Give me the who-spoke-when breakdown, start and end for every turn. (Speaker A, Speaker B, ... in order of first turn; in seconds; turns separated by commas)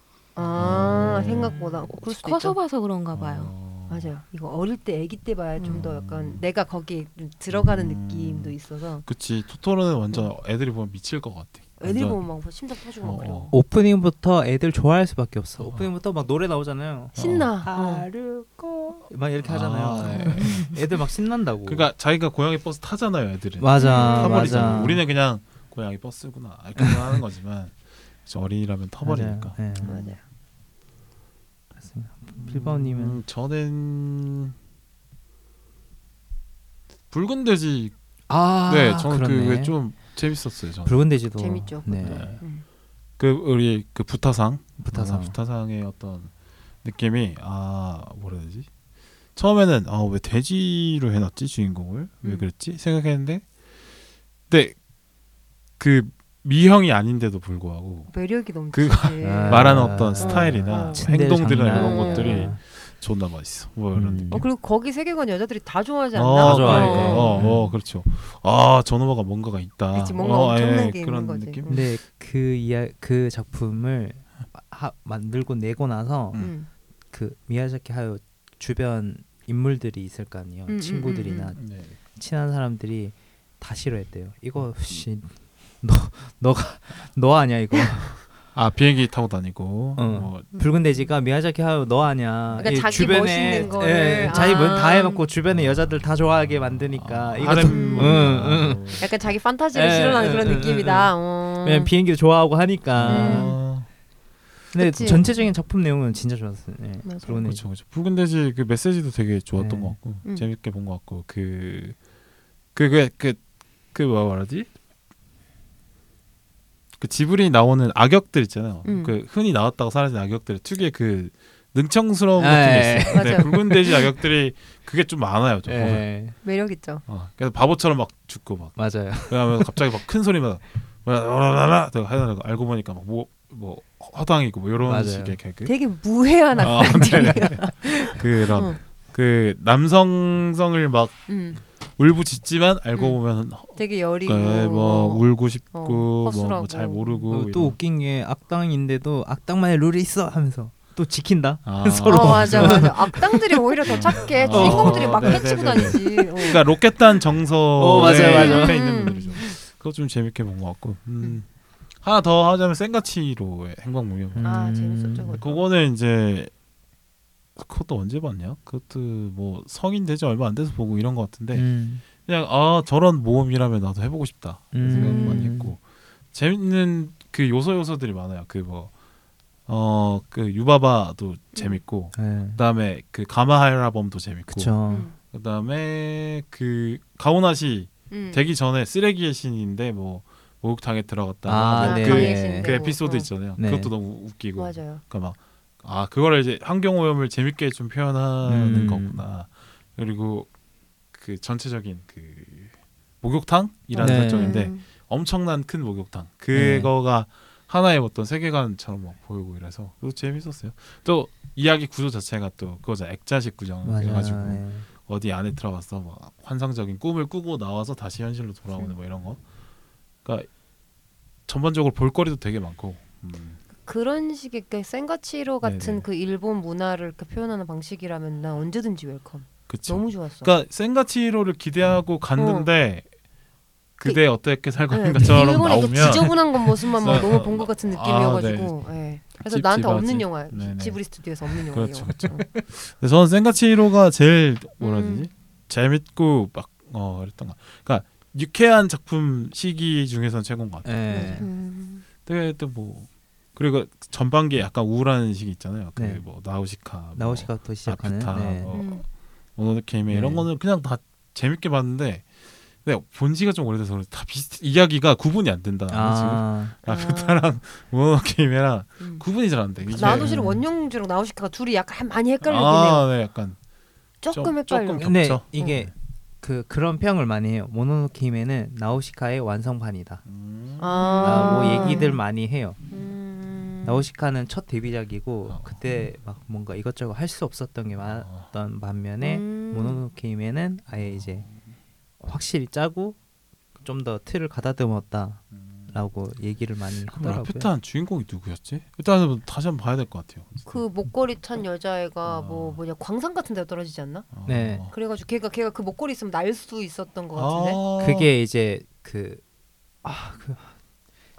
Speaker A: 0.3-2.6, Speaker B: 0.4-1.6, Speaker C: 1.5-3.5, Speaker B: 3.1-4.1, Speaker A: 3.9-9.1, Speaker B: 5.6-6.4, Speaker B: 7.5-13.6, Speaker A: 11.8-13.5, Speaker D: 13.5-21.9, Speaker B: 15.6-15.9, Speaker A: 17.1-18.1, Speaker B: 17.1-17.5, Speaker B: 19.4-20.7, Speaker B: 21.6-30.1, Speaker D: 23.6-25.0, Speaker A: 23.8-24.9, Speaker D: 26.8-27.2, Speaker D: 29.0-30.1, Speaker A: 29.8-30.2, Speaker D: 31.8-33.2, Speaker B: 32.4-34.5, Speaker B: 37.1-37.9, Speaker D: 38.3-39.8, Speaker B: 38.6-41.0, Speaker D: 40.8-42.4, Speaker A: 41.4-42.6, Speaker B: 42.0-42.6, Speaker B: 43.2-48.7, Speaker D: 44.8-45.4, Speaker B: 49.3-53.5, Speaker A: 52.2-52.5, Speaker B: 54.5-54.9, Speaker B: 55.8-64.5, Speaker A: 58.1-61.1, Speaker D: 59.2-62.6, Speaker A: 61.7-62.5, Speaker D: 63.9-64.5, Speaker A: 64.3-67.5, Speaker B: 66.1-71.8, Speaker D: 66.4-67.7, Speaker A: 69.9-71.8, Speaker D: 71.7-76.6, Speaker A: 76.3-76.7, Speaker D: 77.1-88.3, Speaker A: 80.7-81.5, Speaker B: 81.6-82.0, Speaker B: 84.6-85.0, Speaker B: 88.5-90.5, Speaker D: 90.0-99.1, Speaker B: 92.5-93.3, Speaker A: 92.6-95.2, Speaker B: 95.5-96.0, Speaker B: 97.0-99.1, Speaker A: 97.6-101.9, Speaker D: 99.7-103.6, Speaker B: 102.9-103.9, Speaker A: 103.0-103.6, Speaker D: 104.7-107.6, Speaker A: 104.7-105.5, Speaker A: 107.0-107.4, Speaker B: 107.4-112.1, Speaker D: 109.5-110.0, Speaker B: 112.7-114.7, Speaker B: 117.0-126.1, Speaker A: 118.8-119.1, Speaker D: 122.4-124.0, Speaker A: 123.1-123.6, Speaker D: 125.7-126.4, Speaker A: 126.4-127.0, Speaker B: 127.0-135.7, Speaker D: 128.8-129.8, Speaker D: 134.8-135.4, Speaker A: 135.6-138.8, Speaker B: 136.6-147.8, Speaker D: 136.8-137.5, Speaker A: 141.3-141.6, Speaker A: 142.9-143.2, Speaker A: 143.7-147.2, Speaker D: 147.3-153.3, Speaker B: 151.6-152.9, Speaker A: 152.0-156.6, Speaker D: 153.8-156.2, Speaker B: 153.8-164.8, Speaker D: 157.8-158.8, Speaker A: 157.9-159.5, Speaker D: 164.3-165.4, Speaker A: 164.4-165.6, Speaker B: 165.4-166.5, Speaker B: 167.5-178.9, Speaker D: 171.5-172.0, Speaker D: 174.7-175.7, Speaker A: 174.8-175.5, Speaker B: 179.7-219.5, Speaker A: 181.5-181.8, Speaker D: 182.1-182.6, Speaker D: 184.5-185.1, Speaker A: 184.9-185.1, Speaker A: 188.1-188.4, Speaker D: 191.4-192.9, Speaker A: 191.8-193.3, Speaker D: 193.6-193.9, Speaker A: 194.6-195.0, Speaker D: 198.4-199.2, Speaker D: 204.0-204.7, Speaker A: 204.0-204.8, Speaker D: 206.5-206.9, Speaker D: 213.8-214.9, Speaker B: 220.2-220.6, Speaker B: 221.4-223.6, Speaker A: 223.8-230.5, Speaker B: 225.6-226.0, Speaker B: 229.7-233.2, Speaker A: 232.4-232.7, Speaker B: 233.9-251.6, Speaker A: 234.0-242.4, Speaker A: 244.8-245.3, Speaker D: 250.8-251.5, Speaker A: 251.1-252.0, Speaker B: 252.2-270.4, Speaker D: 255.9-256.2, Speaker D: 257.1-258.8, Speaker A: 258.7-259.0, Speaker D: 260.1-260.5, Speaker D: 265.9-266.7, Speaker A: 266.8-267.4, Speaker A: 269.8-273.1, Speaker D: 269.9-270.6, Speaker B: 272.4-273.7, Speaker A: 274.2-275.8, Speaker B: 274.3-275.4, Speaker D: 275.0-280.2, Speaker B: 280.2-281.7, Speaker A: 280.8-282.2, Speaker D: 281.2-282.8, Speaker A: 282.9-284.0, Speaker D: 283.8-291.5, Speaker B: 285.5-285.8, Speaker B: 288.1-288.5, Speaker A: 289.2-290.0, Speaker B: 291.2-291.5, Speaker D: 292.2-293.2, Speaker D: 293.8-297.7, Speaker B: 295.5-296.0, Speaker B: 297.1-301.0, Speaker A: 300.6-304.3, Speaker B: 302.2-302.8, Speaker B: 304.3-304.9, Speaker D: 304.4-304.9, Speaker A: 304.9-307.8, Speaker B: 307.3-308.3, Speaker D: 308.0-309.4, Speaker D: 310.0-310.8